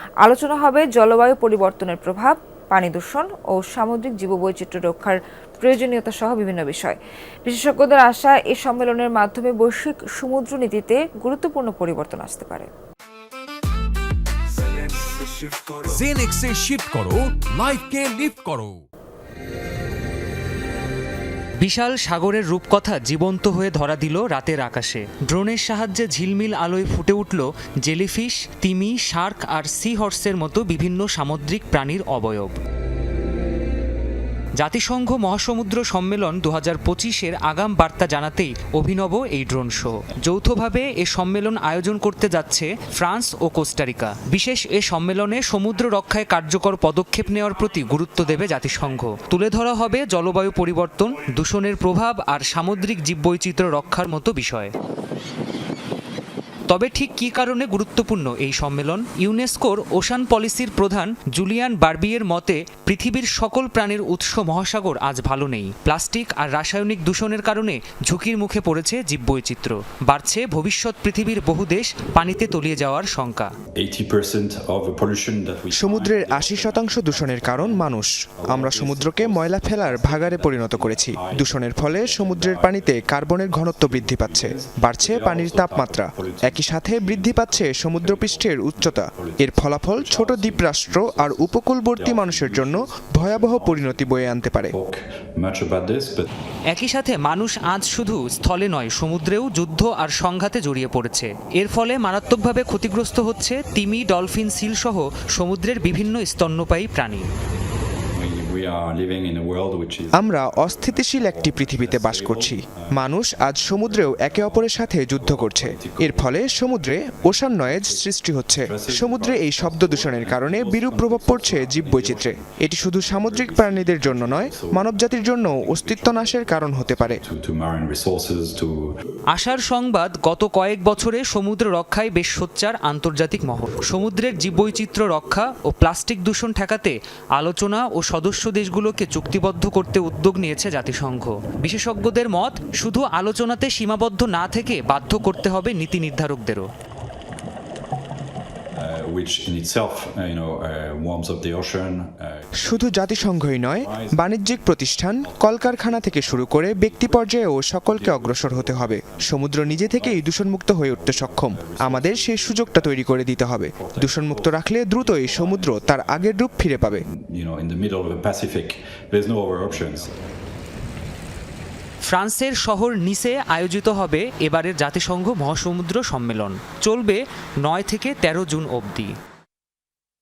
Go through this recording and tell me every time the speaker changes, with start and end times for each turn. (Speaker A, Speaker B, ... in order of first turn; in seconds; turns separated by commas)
Speaker A: 0.2-12.7, Speaker B: 15.9-18.8, Speaker C: 21.6-32.6, Speaker C: 34.6-54.7, Speaker C: 56.7-73.5, Speaker D: 73.8-77.9, Speaker E: 75.7-94.8, Speaker D: 78.4-96.3, Speaker C: 96.7-107.3, Speaker D: 108.1-118.1, Speaker E: 110.2-127.2, Speaker D: 118.6-128.9, Speaker C: 129.3-146.7, Speaker D: 148.8-160.3, Speaker E: 152.6-167.0, Speaker D: 160.8-170.1, Speaker C: 172.1-179.2